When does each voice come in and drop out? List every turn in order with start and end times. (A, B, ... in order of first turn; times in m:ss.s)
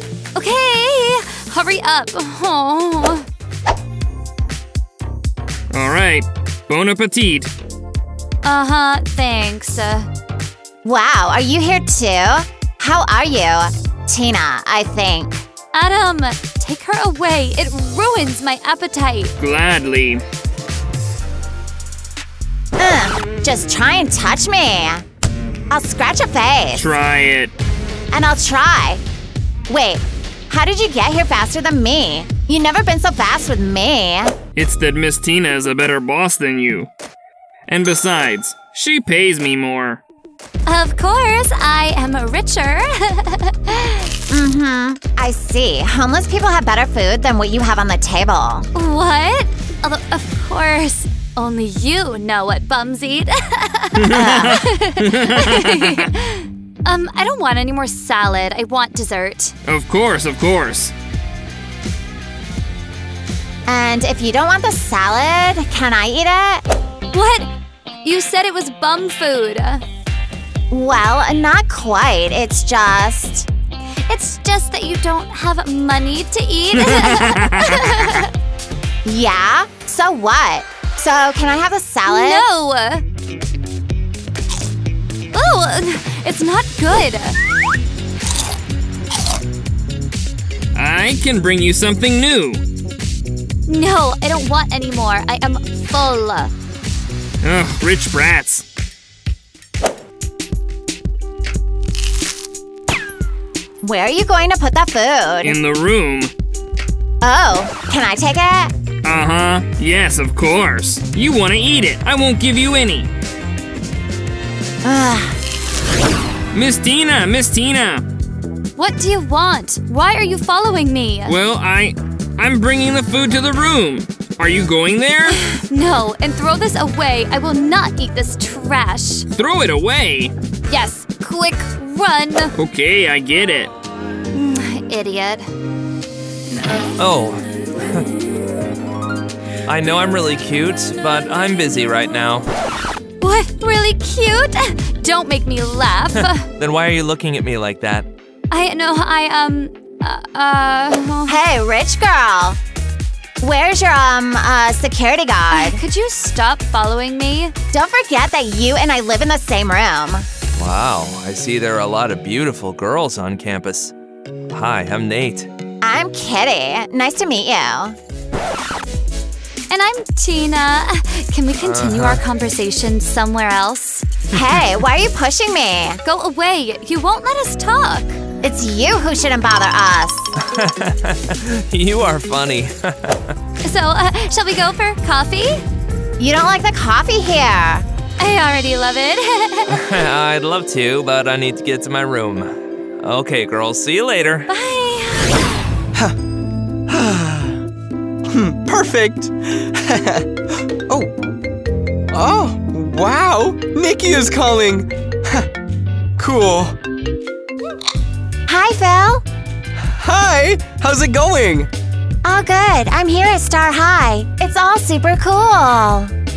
0:00.3-0:03.2 A
0:05.7-0:07.5 B
0:08.4-0:10.1 A
0:10.8-0:15.4 C
0:15.7-0:19.3 A
0:19.4-0:20.2 B
0:22.8-0:25.0 C
0:25.7-0:26.9 C
0:26.7-0:27.5 B
0:28.1-0:29.0 C
0:29.7-0:34.3 C
0:34.6-0:36.9 B
0:37.7-0:40.0 B
0:40.6-0:44.1 A
0:44.3-0:48.7 C
0:48.7-0:59.6 A
0:54.0-0:56.0 B
0:54.1-0:54.6 C
0:59.6-1:00.9 B
1:03.7-1:06.6 C
1:07.1-1:07.5 A
1:08.0-1:09.8 A
1:10.7-1:13.5 C
1:14.1-1:18.3 A
1:19.0-1:22.4 C
1:22.0-1:23.0 A
1:25.3-1:27.4 A
1:30.7-1:32.6 B
1:33.7-1:36.5 A
1:37.4-1:38.6 B
1:43.8-1:45.6 C
1:45.4-1:46.3 B
1:47.2-1:48.7 C
1:49.0-1:53.1 B
1:54.8-1:55.4 C
1:56.5-1:58.0 B
1:58.8-2:01.4 A
2:01.2-2:05.4 B
2:05.5-2:09.3 A
2:09.3-2:10.3 B
2:10.7-2:12.6 A
2:12.6-2:13.7 B
2:14.3-2:15.5 A
2:17.0-2:18.1 D
2:19.6-2:22.5 D
2:23.2-2:26.5 A
2:26.2-2:28.1 D
2:28.5-2:31.4 A
2:31.3-2:32.6 C
2:33.4-2:35.8 C
2:35.5-2:37.5 A
2:37.7-2:40.2 C
2:40.6-2:43.9 D
2:44.5-2:45.5 D
2:45.8-2:48.0 C
2:49.7-2:54.1 A
2:51.6-2:52.2 D
2:54.3-2:56.0 C
2:56.0-2:58.2 A
2:58.4-3:00.3 C
3:00.4-3:03.3 D
3:03.6-3:05.6 A
3:06.2-3:07.8 C
3:08.2-3:09.8 A
3:09.7-3:14.5 D
3:14.5-3:15.6 A
3:16.9-3:17.6 E
3:18.2-3:21.1 E
3:22.1-3:25.5 E
3:26.2-3:26.7 E
3:28.5-3:29.2 C
3:29.8-3:31.7 E
3:32.2-3:36.1 C